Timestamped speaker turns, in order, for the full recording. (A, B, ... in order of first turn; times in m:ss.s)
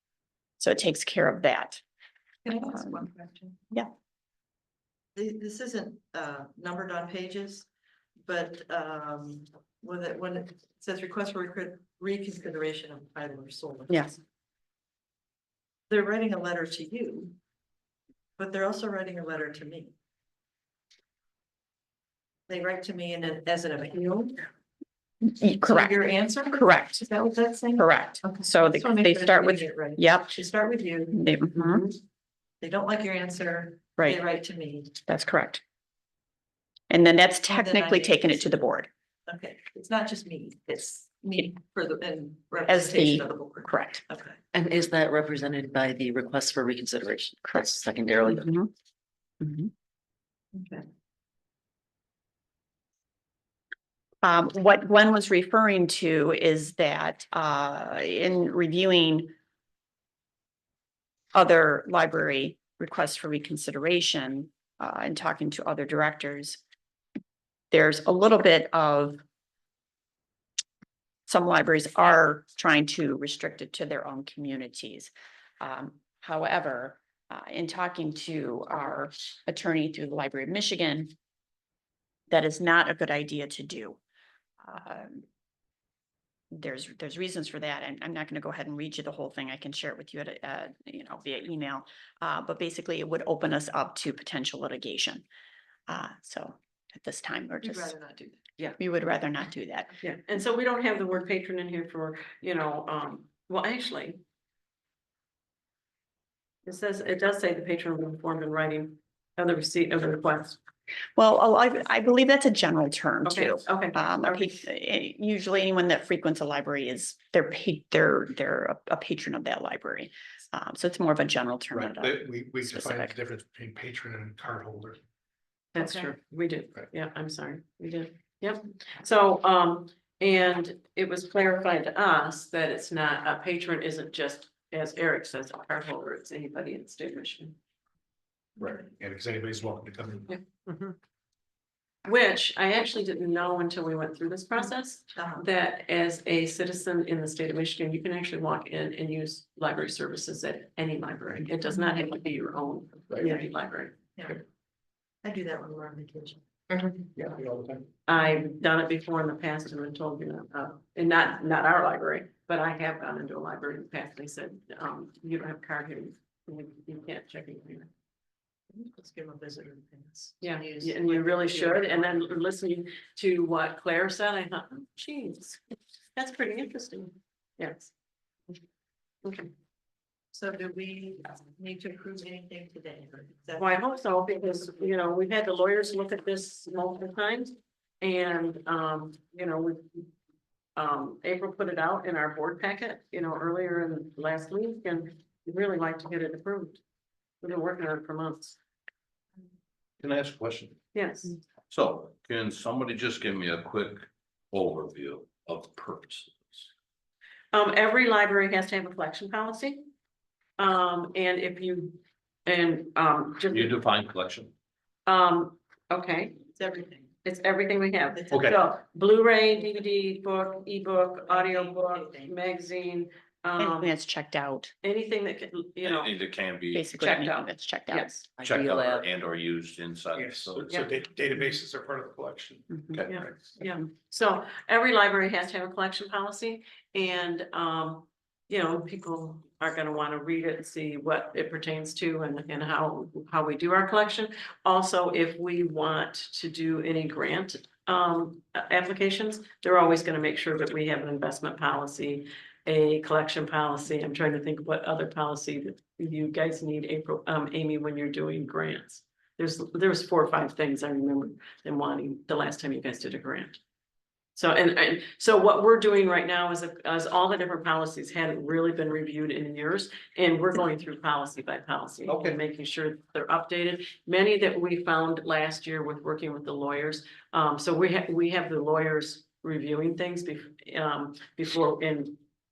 0:00.6-0:01.8 A
0:02.4-0:03.6 B
0:02.6-0:03.0 A
0:05.2-0:07.7 B
0:08.2-0:14.1 B
0:13.9-0:14.2 A
0:15.9-0:17.4 B
0:18.4-0:19.9 B
0:22.5-0:24.5 B
0:25.2-0:25.9 A
0:25.6-0:32.0 B
0:26.5-0:27.0 A
0:27.8-0:30.4 A
0:31.1-0:31.9 A
0:32.6-0:35.0 B
0:35.1-0:35.6 A
0:36.9-0:38.9 A
0:37.5-0:38.5 B
0:39.3-0:44.4 B
0:42.7-0:44.0 A
0:44.5-0:48.5 C
0:48.3-0:48.7 A
0:49.4-0:49.7 A
0:50.6-0:50.8 B
0:54.2-0:59.3 A
1:01.3-1:06.6 A
1:07.7-1:09.2 A
1:11.3-1:21.1 A
1:22.3-1:24.0 A
1:24.6-1:25.3 A
1:26.5-1:35.2 A
1:35.9-1:37.9 A
1:37.6-1:38.4 B
1:38.8-1:40.0 A
1:40.0-1:44.2 D
1:46.7-1:50.6 D
1:51.2-2:03.1 A
1:53.2-1:54.6 D
2:01.7-2:05.0 E
2:05.7-2:17.6 D
2:18.6-2:20.3 E
2:22.0-2:34.4 D
2:25.2-2:25.4 B
2:34.2-2:34.4 B
2:35.2-2:36.9 B
2:37.2-2:37.9 E
2:38.1-2:47.9 D
2:48.7-2:52.3 B
2:50.4-2:55.6 D
2:56.2-2:57.9 D
2:59.2-2:59.5 D
3:00.3-3:03.7 B
3:03.6-3:10.1 D
3:10.8-3:16.8 D
3:17.4-3:18.6 D
3:20.0-3:20.8 F
3:20.9-3:21.4 D
3:21.7-3:26.7 F
3:27.5-3:29.9 D
3:30.6-3:33.8 D
3:33.5-3:34.5 F
3:35.1-3:36.4 D
3:36.6-3:37.1 B
3:37.2-3:43.9 D
3:38.2-3:38.6 B
3:41.3-3:42.3 B
3:43.6-3:44.7 A
3:44.8-3:46.1 D
3:45.8-3:46.9 F
3:46.7-3:48.2 A
3:46.9-3:48.3 D
3:48.4-3:49.0 C
3:48.4-3:50.9 F
3:50.1-3:52.9 E
3:52.8-3:53.0 A
3:52.9-3:53.3 F
3:53.1-4:23.6 D
4:24.4-4:42.2 D